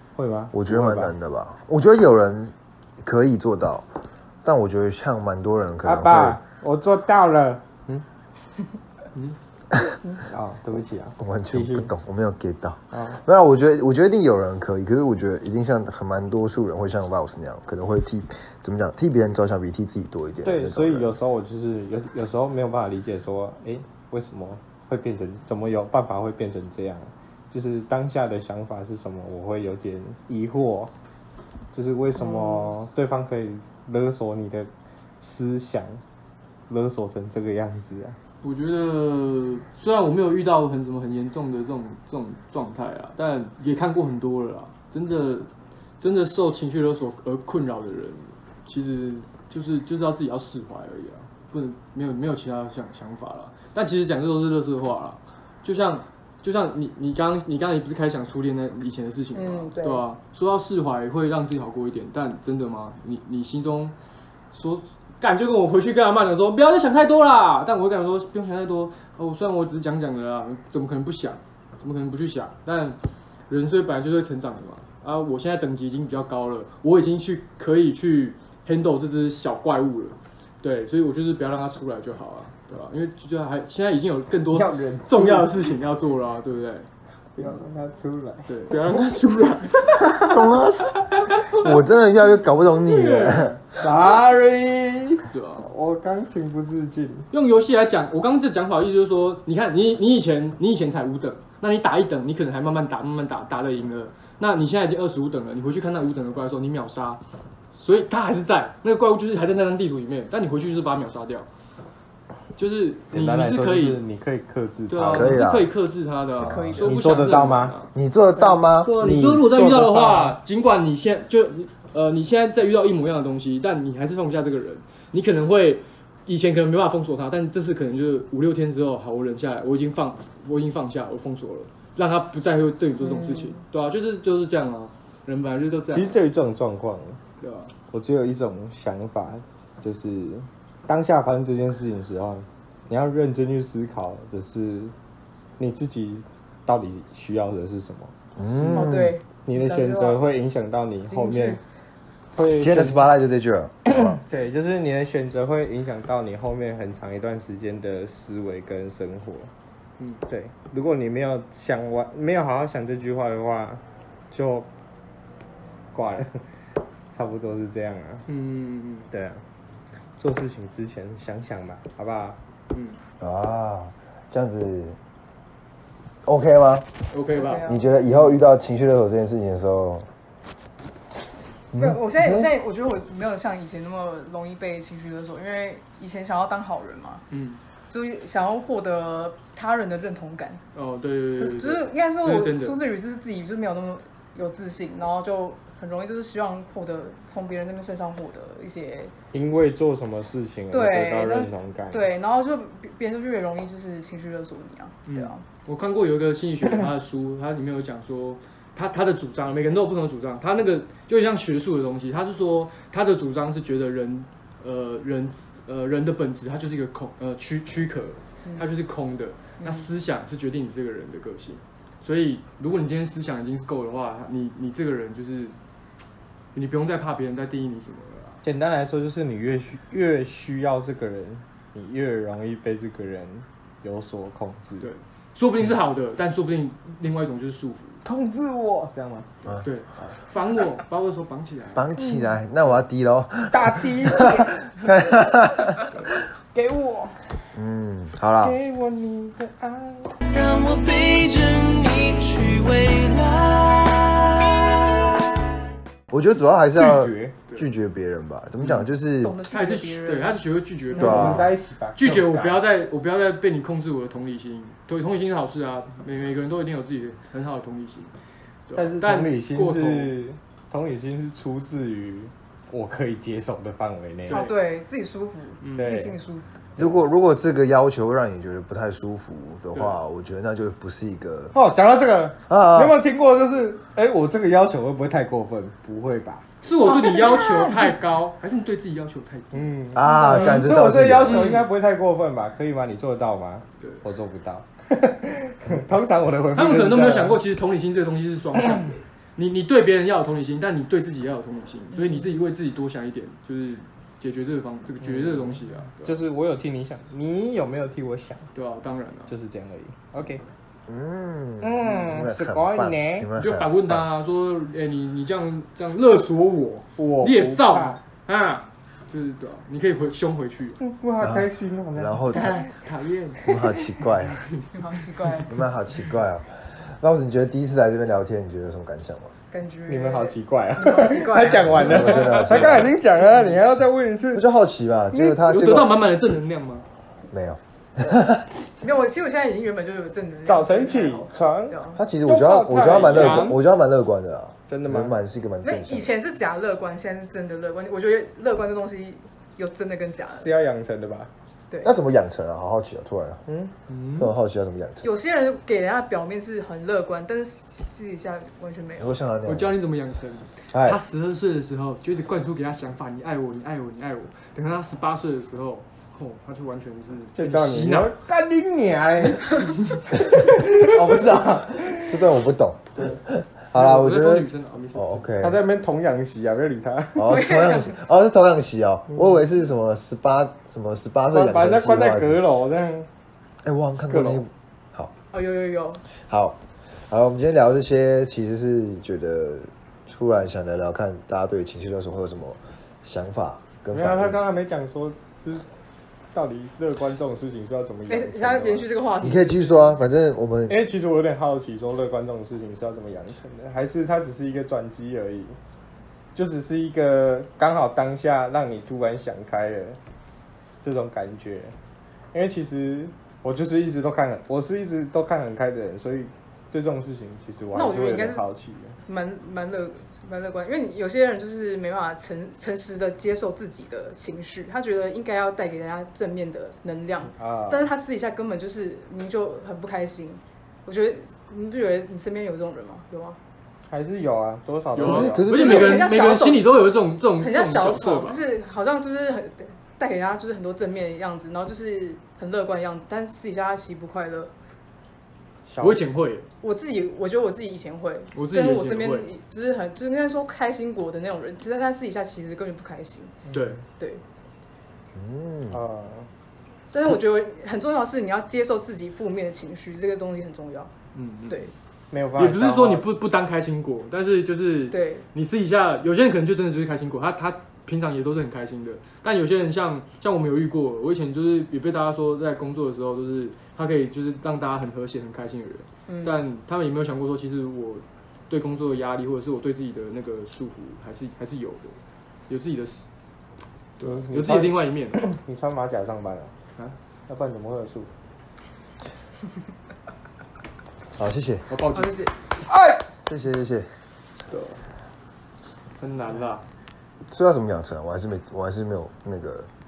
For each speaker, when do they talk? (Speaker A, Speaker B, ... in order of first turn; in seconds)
Speaker A: 0.1-1.1, 5.8-8.1, 10.2-11.9, 12.9-13.2, 20.4-30.9, 31.7-34.7, 35.2-36.0, 36.7-38.2, 84.5-85.5, 87.4-88.6, 93.8-97.3, 113.1-115.4, 116.8-117.8, 118.9-120.4, 135.9-137.2, 137.9-144.9, 145.6-148.9, 149.4-151.6, 152.3-153.1, 153.9-159.5, 160.3-164.7, 165.9-166.4, 167.1-168.3, 169.1-169.4, 170.2-172.4, 199.3-202.1, 228.4-234.9, 238.1-239.3, 243.5-244.6, 246.5-247.2, 248.4-250.1, 256.8-257.4, 260.9-262.6, 268.8-274.4, 275.8-276.2, 276.8-277.0, 281.5-287.9, 289.5-297.4, 305.0-308.4, 309.3-310.4, 311.6-313.3, 317.0-318.0, 320.8-322.7, 329.9-334.4, 335.1-335.4, 340.5-343.6, 344.7-345.1, 350.4-351.3, 353.5-353.7, 367.4-372.3, 375.4-377.4, 381.3-383.1, 384.1-384.4, 393.9-395.7, 396.3-398.9, 400.7-405.6, 406.3-410.0, 410.8-411.7, 412.3-419.0, 427.4-427.9, 433.9-435.4, 445.6-446.1, 453.5-453.8, 455.7-456.3, 462.1-463.1, 484.0-486.5, 487.3-488.1, 492.7-493.0
Speaker B: 0.5-3.9, 4.4-6.4, 11.2-21.2, 90.2-93.6, 115.0-115.7, 116.3-116.9, 117.9-119.1, 148.4-149.1, 152.6-154.2, 173.2-175.0, 176.2-176.9, 177.6-180.1, 181.7-182.5, 241.7-245.9, 247.6-248.6, 256.1-259.4, 261.0-261.5, 276.8-281.6, 282.5-283.0, 289.9-291.6, 310.9-314.1, 321.2-322.6, 323.4-324.4, 325.5-329.3, 331.7-333.0, 334.4-336.0, 337.3-338.5, 342.0-346.1, 351.8-353.4, 354.2-355.1, 359.0-359.8, 360.7-361.0, 370.9-375.6, 377.2-382.4, 383.6-385.1, 386.2-386.6, 387.1-394.4, 399.2-400.8, 435.0-436.1, 455.1-455.8, 491.2-491.7, 493.3-493.9, 497.3-499.7
Speaker C: 32.2-32.7, 59.3-60.1, 116.4-117.2, 133.0-133.6, 148.7-150.3, 151.1-151.6, 177.3-177.9, 181.8-187.2, 187.9-190.6, 191.4-199.1, 200.7-205.4, 219.6-219.9, 259.2-261.0, 274.3-276.5, 301.9-302.3, 324.7-325.5, 329.5-332.5, 338.8-342.0, 345.6-350.5, 355.0-359.1, 377.2-378.0, 385.3-386.0, 398.1-400.0, 417.7-418.4, 419.1-433.4, 435.5-436.9, 437.4-444.5, 446.6-453.4, 454.0-454.2, 456.9-460.9, 464.9-465.2, 476.1-476.4, 491.9-492.3
Speaker D: 38.4-45.5, 46.0-63.9, 64.5-73.0, 73.5-86.9, 88.5-90.2, 92.8-93.6, 95.3-95.7, 97.3-107.2, 107.8-111.5, 112.6-114.0, 114.9-117.9, 118.8-136.2, 137.4-137.7, 168.3-169.1, 172.7-173.0, 177.1-177.7, 187.3-187.6, 190.7-192.8, 205.1-225.6, 226.5-228.4, 234.8-238.0, 239.6-241.9, 258.6-258.9, 259.5-268.1, 268.7-270.2, 274.3-274.6, 275.6-276.0, 279.7-280.0, 286.6-290.7, 291.2-291.7, 296.5-306.2, 308.5-309.3, 313.4-320.8, 322.3-323.4, 332.6-333.4, 335.5-336.9, 342.8-343.6, 353.9-354.3, 359.4-368.1, 373.7-375.3, 434.9-438.4, 445.8-446.5, 448.4-449.3, 453.5-453.8, 461.1-461.7, 462.4-482.0, 482.5-483.1, 484.0-485.3, 491.7-492.2, 494.5-494.8, 496.0-496.6
Speaker E: 250.3-255.1